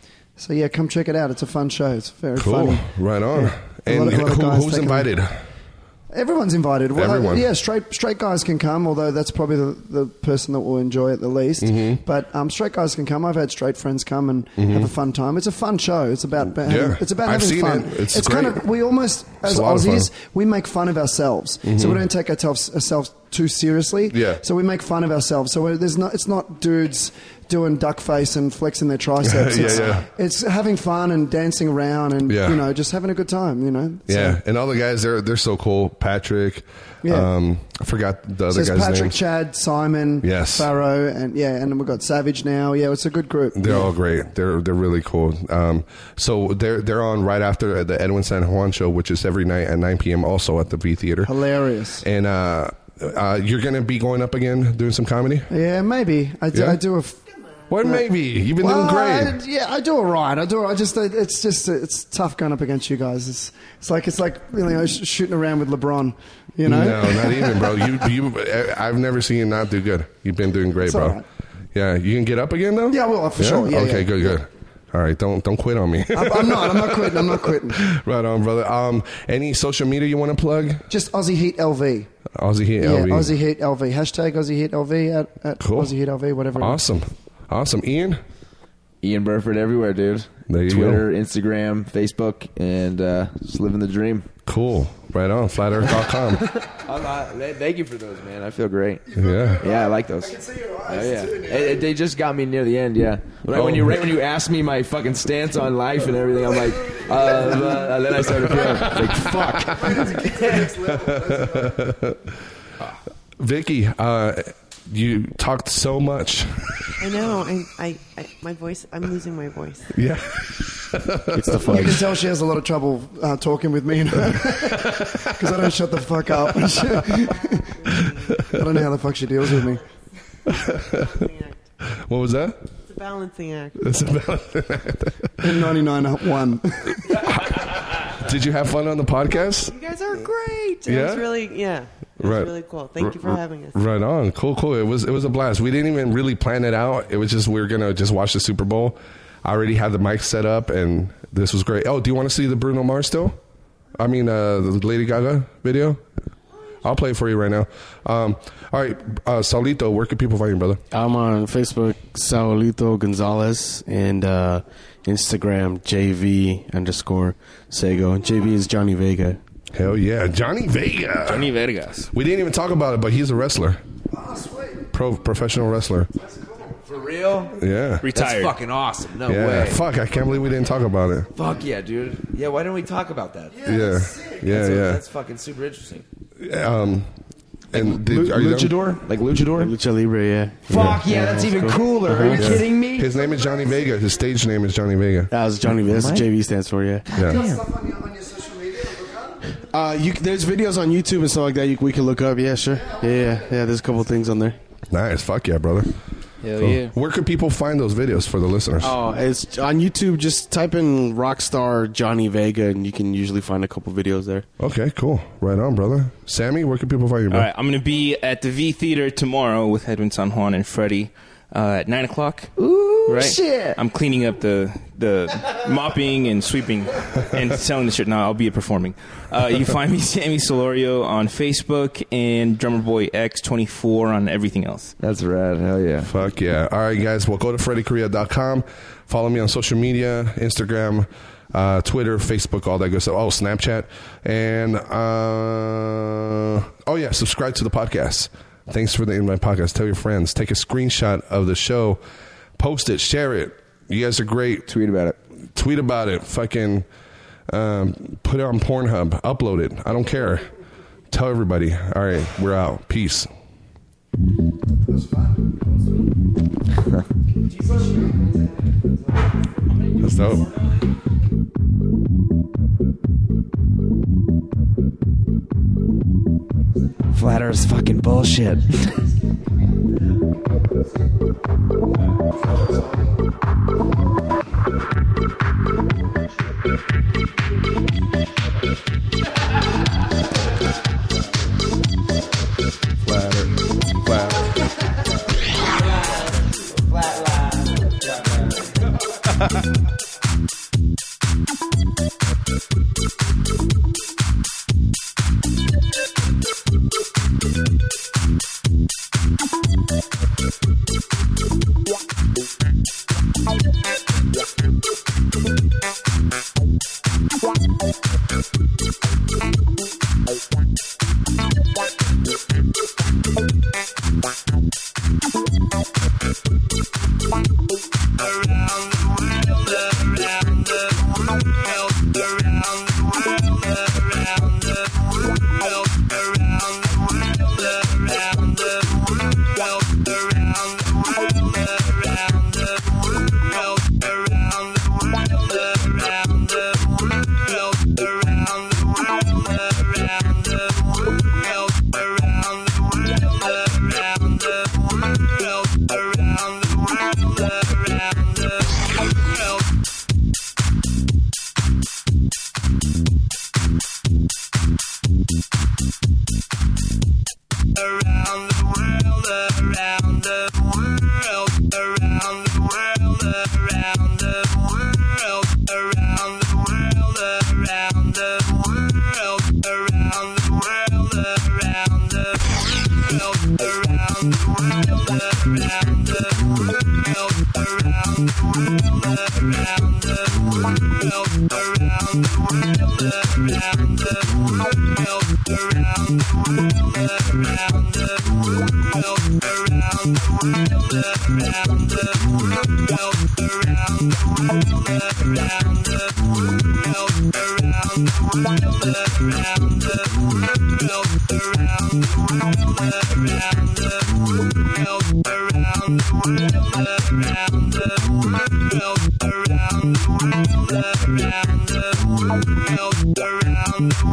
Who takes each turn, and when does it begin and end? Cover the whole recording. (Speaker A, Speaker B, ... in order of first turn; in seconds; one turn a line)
Speaker A: 0.4-5.1
Speaker B: 2.4-5.4
Speaker A: 6.1-34.4
Speaker B: 6.9-7.5
Speaker B: 11.6-12.0
Speaker B: 14.6-14.9
Speaker B: 16.6-18.6
Speaker B: 19.4-20.1
Speaker B: 21.6-22.0
Speaker B: 24.1-24.4
Speaker B: 29.2-30.1
Speaker B: 32.3-32.6
Speaker B: 34.1-39.2
Speaker A: 37.0-37.3
Speaker A: 38.5-43.9
Speaker B: 40.2-40.7
Speaker B: 43.5-51.3
Speaker A: 51.2-52.0
Speaker B: 52.0-55.5
Speaker A: 55.5-57.2
Speaker B: 56.5-56.8
Speaker B: 57.7-59.4
Speaker A: 57.8-58.0
Speaker A: 58.6-67.8
Speaker B: 66.6-71.2
Speaker A: 70.8-71.2
Speaker B: 71.7-80.9
Speaker A: 72.9-74.4
Speaker A: 76.1-77.8
Speaker A: 80.9-82.1
Speaker B: 82.4-83.3
Speaker A: 82.8-86.8
Speaker B: 85.6-85.9
Speaker B: 86.6-88.2
Speaker C: 89.0-94.3
Speaker B: 90.5-91.0
Speaker B: 94.5-96.5
Speaker C: 96.8-99.0
Speaker A: 99.1-101.9
Speaker B: 99.2-99.6
Speaker C: 99.6-110.0
Speaker B: 103.5-104.0
Speaker A: 107.2-107.9
Speaker B: 108.4-109.1
Speaker A: 109.7-111.8
Speaker B: 109.8-112.2
Speaker B: 113.4-116.5
Speaker D: 117.0-119.9
Speaker B: 119.9-121.9
Speaker E: 121.3-122.0
Speaker A: 121.7-129.8
Speaker B: 124.3-125.1
Speaker D: 127.8-128.3
Speaker D: 130.9-131.6
Speaker B: 132.0-132.6
Speaker D: 132.9-133.8
Speaker B: 133.8-135.6
Speaker A: 135.4-137.2
Speaker B: 137.1-137.6
Speaker B: 138.2-139.7
Speaker D: 139.6-143.8
Speaker B: 140.8-141.3
Speaker B: 142.2-153.4
Speaker B: 154.0-156.0
Speaker B: 156.8-160.8
Speaker E: 160.9-169.4
Speaker B: 169.7-171.5
Speaker F: 171.2-172.1
Speaker B: 172.1-173.8
Speaker A: 174.1-174.8
Speaker B: 174.9-176.1
Speaker A: 176.2-176.7
Speaker C: 176.9-177.5
Speaker B: 177.5-178.1
Speaker F: 178.0-178.5
Speaker C: 178.1-179.8
Speaker B: 179.2-181.3
Speaker C: 181.3-183.6
Speaker A: 183.6-184.4
Speaker B: 183.6-185.0
Speaker C: 184.5-186.0
Speaker B: 186.4-187.1
Speaker B: 187.7-188.8
Speaker C: 187.7-189.7
Speaker E: 189.5-192.6
Speaker C: 190.7-193.1
Speaker B: 190.7-191.0
Speaker B: 192.3-195.3
Speaker E: 195.3-197.1
Speaker C: 195.9-196.3
Speaker C: 197.0-197.6
Speaker B: 197.2-197.4
Speaker A: 197.2-199.4
Speaker E: 199.7-204.6
Speaker B: 204.9-205.9
Speaker C: 206.6-206.9
Speaker B: 206.6-209.0
Speaker E: 208.8-214.4
Speaker B: 214.6-217.5
Speaker F: 217.3-222.5
Speaker C: 222.6-223.8
Speaker F: 223.1-234.9
Speaker C: 235.0-236.1
Speaker B: 236.0-252.0
Speaker B: 252.6-254.7
Speaker C: 254.7-255.2
Speaker B: 255.5-256.8
Speaker B: 257.5-260.5
Speaker B: 261.1-263.3
Speaker A: 264.9-265.9
Speaker A: 267.6-268.7
Speaker B: 270.0-270.5
Speaker C: 277.1-278.9
Speaker B: 293.0-294.5